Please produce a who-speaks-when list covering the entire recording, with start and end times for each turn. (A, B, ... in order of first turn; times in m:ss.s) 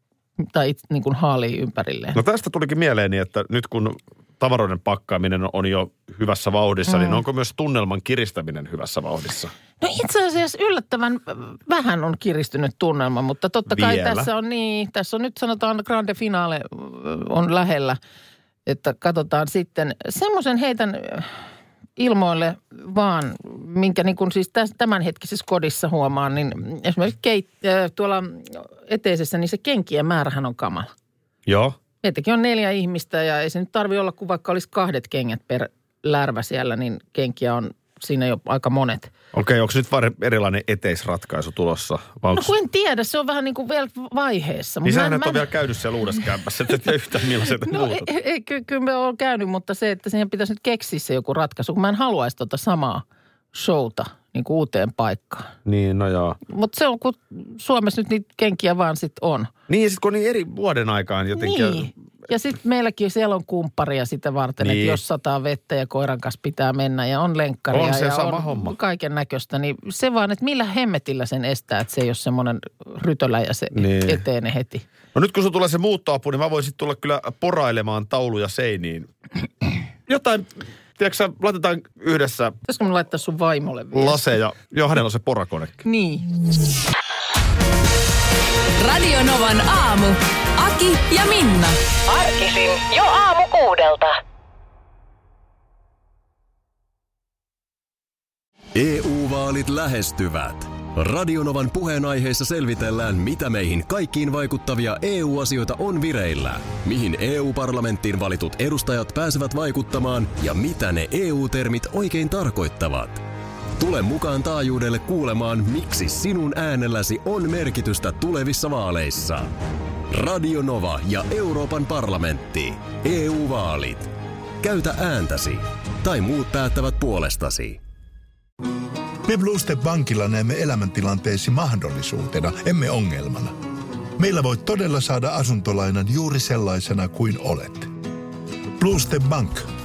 0:00.4-0:02.2 A
0:02.1-0:09.5 B
0:06.9-0:07.2 A
0:09.8-0:18.0 A
0:13.7-0:14.3 B
0:18.7-0:21.4 A
0:22.0-0:30.9 A
0:31.5-0:31.8 B
0:32.0-0:39.1 A
0:39.3-0:42.5 B
0:42.3-0:45.4 A
0:44.8-0:48.1 B
0:47.6-0:55.5 A
0:55.6-0:56.4 B
0:56.5-0:59.5 A
0:59.7-1:01.9 B
1:01.4-1:14.9 A
1:04.6-1:05.0 B
1:07.7-1:08.8 B
1:13.7-1:14.2 B
1:15.1-1:19.1 B
1:20.1-1:22.6 B
1:22.6-1:24.3 A
1:23.9-1:25.8 B
1:25.8-1:26.3 A
1:28.8-1:31.8 C
1:32.1-1:34.1 D
1:38.8-1:53.2 E
1:53.8-1:59.6 E
2:00.1-2:04.1 E
2:04.6-2:07.8 E
2:09.3-2:13.6 F
2:14.2-2:17.9 F
2:18.8-2:19.6 F